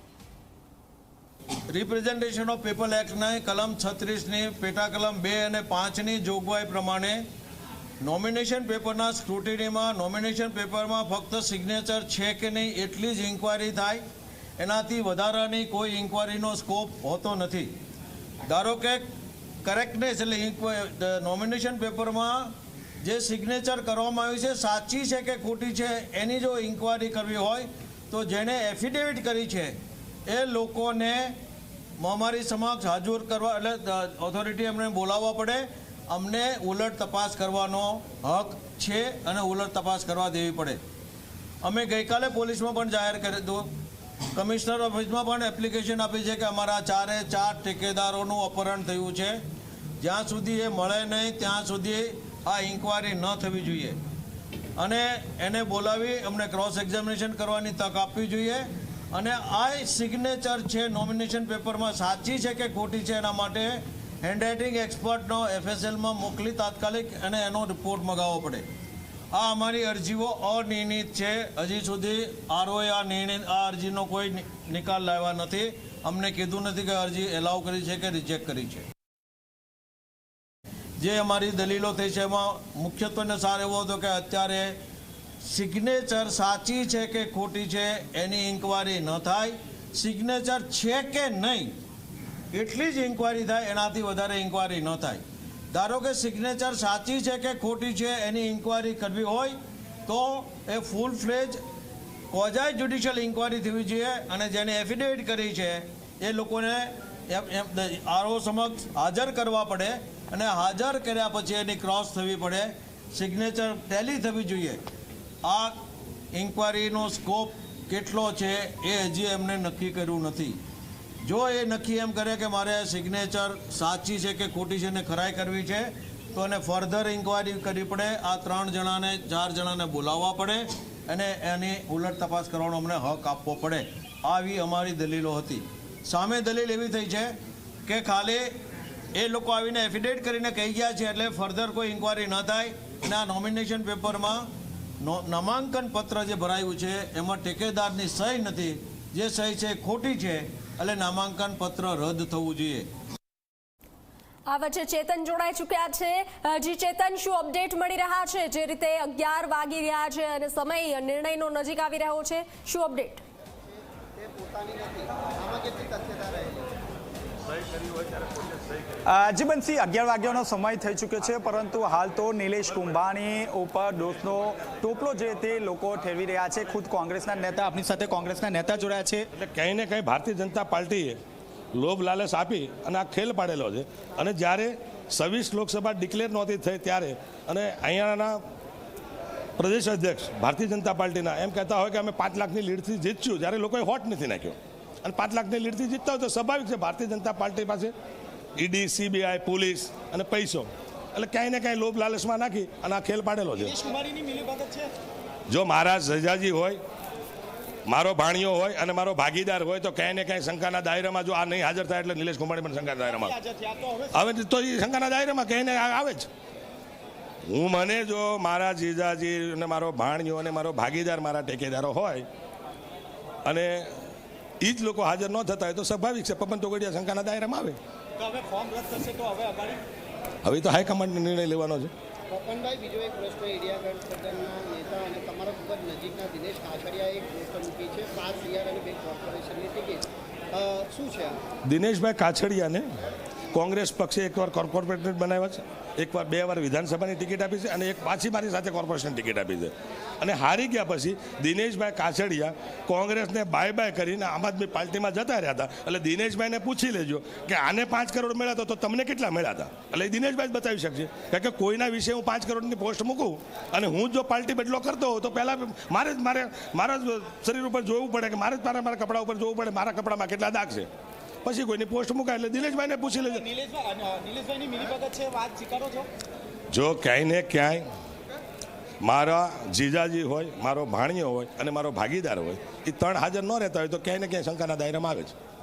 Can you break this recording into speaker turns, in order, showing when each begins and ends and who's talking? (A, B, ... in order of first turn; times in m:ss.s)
0:01.7-0:07.2 A
0:08.0-0:14.0 A
0:14.6-0:17.7 A
0:18.4-0:19.1 A
0:19.6-0:29.7 A
0:30.2-0:31.4 A
0:32.0-0:40.8 A
0:41.6-0:43.7 A
0:44.3-0:49.4 A
0:50.0-0:54.0 A
0:54.8-1:08.6 A
1:09.3-1:18.8 A
1:21.0-1:24.8 A
1:25.4-1:31.7 A
1:32.5-1:41.6 A
1:42.3-1:54.8 A
1:55.4-1:55.7 A
1:56.3-2:00.6 A
2:01.2-2:17.3 A
2:17.8-2:18.5 A
2:19.1-2:24.5 A
2:25.0-2:32.9 A
2:34.4-2:43.2 B
2:44.2-2:46.7 C
2:49.0-2:59.3 D
2:59.3-3:01.2 E
3:01.7-3:08.4 E
3:09.6-3:17.9 E
3:18.6-3:23.7 E
3:23.6-3:24.9 D
3:25.5-3:26.8 E
3:27.9-3:33.3 E
3:33.0-3:34.1 D
3:34.1-3:36.3 E
3:37.5-3:42.3 E
3:43.4-3:43.9 E
3:44.6-3:47.8 E
3:48.2-3:49.8 D
3:50.4-3:51.9 E
3:52.3-4:01.4 C
4:01.6-4:02.9 E
4:03.5-4:30.9 E
4:31.4-4:33.4 E
4:33.1-4:36.1 D
4:36.7-4:37.8 E
4:39.0-4:45.3 E